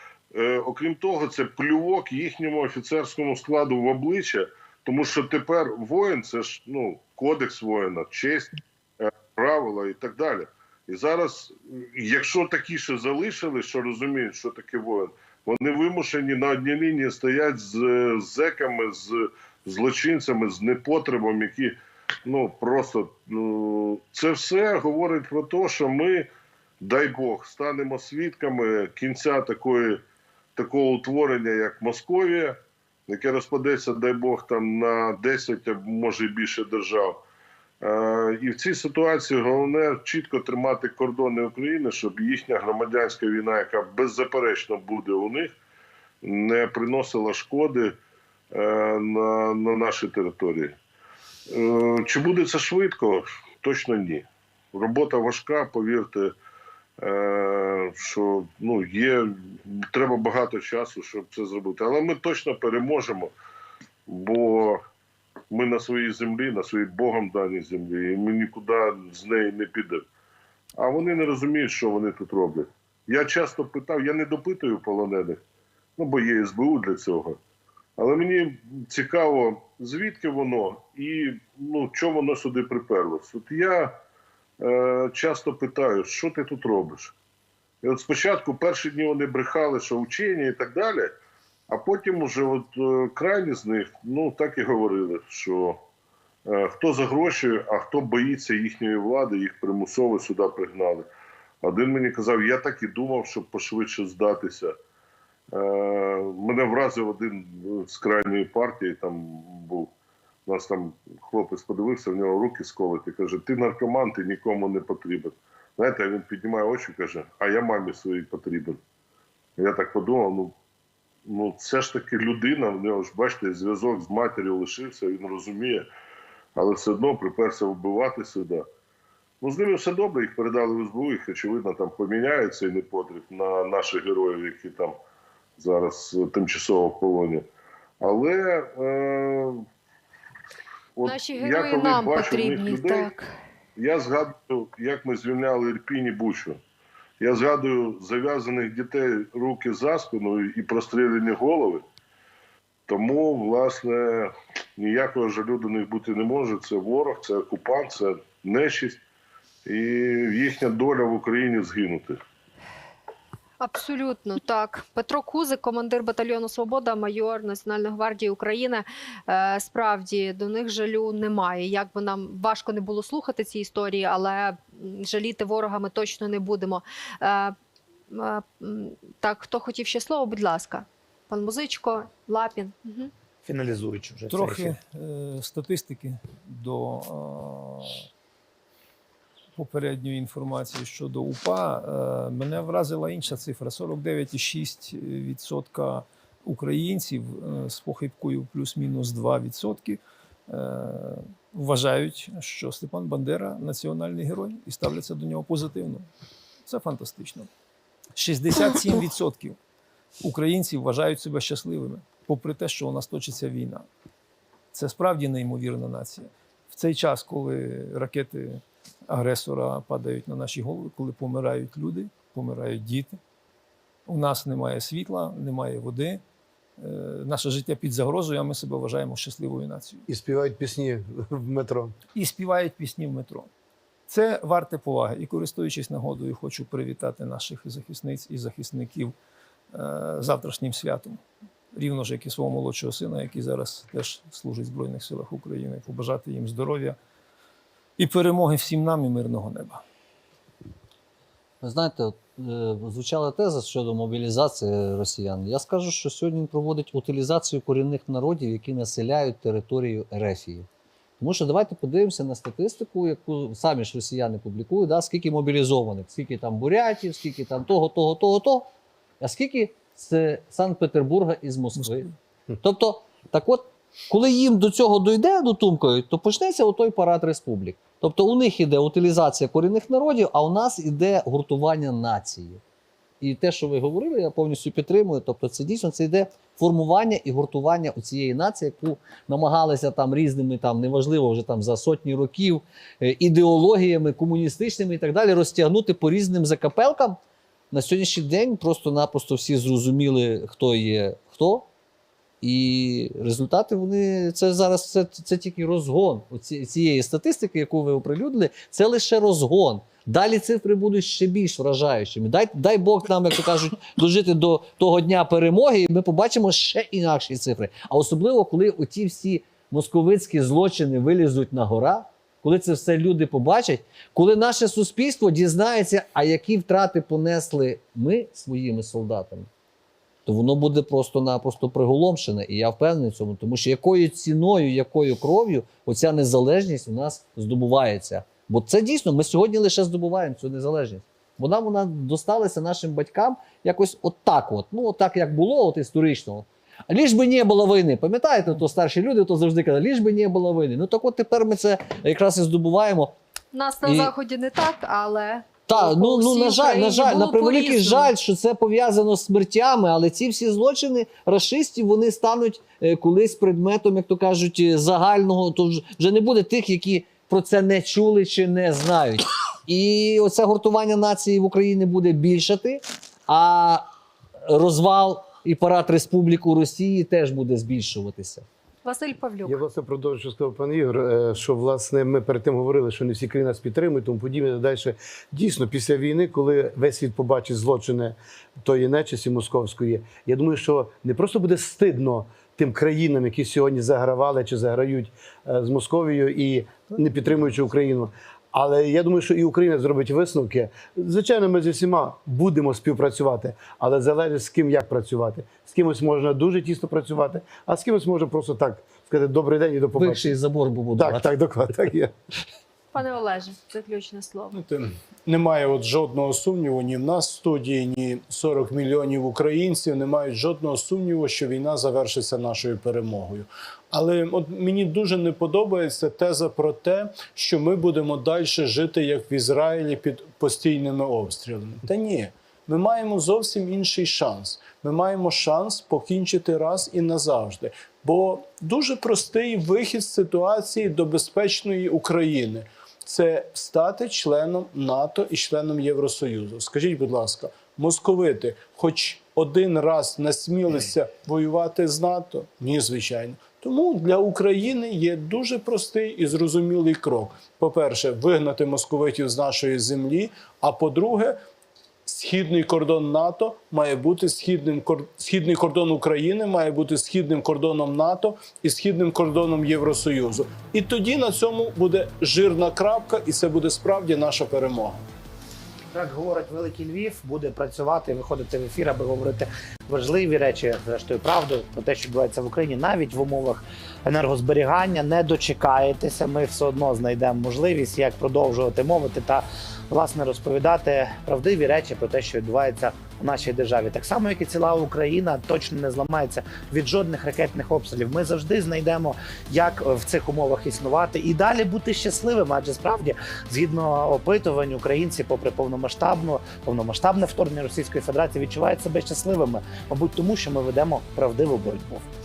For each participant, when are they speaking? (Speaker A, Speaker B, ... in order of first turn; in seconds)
Speaker A: 0.3-26.3, 26.8-30.0, 30.6-32.6, 33.1-37.2, 37.8-45.5, 46.2-48.0, 48.5-50.7, 51.5-56.3, 57.0-63.3, 64.1-64.8, 65.5-70.0, 70.8-75.4, 76.0-77.4, 78.0-84.0, 84.6-87.1, 87.8-91.1, 91.7-95.8, 96.5-101.0, 101.6-104.7, 105.5-109.9, 110.5-118.8, 119.6-120.5, 121.2-125.8, 126.5-128.6, 129.4-134.9, 135.6-137.4, 138.0-139.6, 141.0-143.1, 143.8-146.6, 147.2-151.8, 152.9-159.0, 159.7-162.2
Speaker B: 141.0-143.3, 163.6-177.6, 178.1-183.1, 353.5-358.1, 378.8-379.6, 412.9-414.5
Speaker C: 183.4-184.8, 475.9-512.0
Speaker D: 184.3-188.0, 189.5-206.1, 206.6-207.5, 208.2-209.6, 210.2-213.9, 214.7-223.2, 224.1-226.2, 226.8-230.0, 232.1-233.5, 234.1-239.1, 239.7-241.2, 241.7-247.0, 248.0-249.8, 271.8-272.1
Speaker E: 230.1-231.9, 379.4-410.3, 411.0-412.1
Speaker F: 251.6-260.7, 261.2-268.7, 269.2-272.1, 272.6-282.6, 283.2-297.2, 297.7-301.7, 302.4-329.5, 330.2-353.1, 353.8-354.1, 355.7-373.9, 374.5-378.4, 409.9-411.3
Speaker G: 414.5-461.4, 462.0-475.0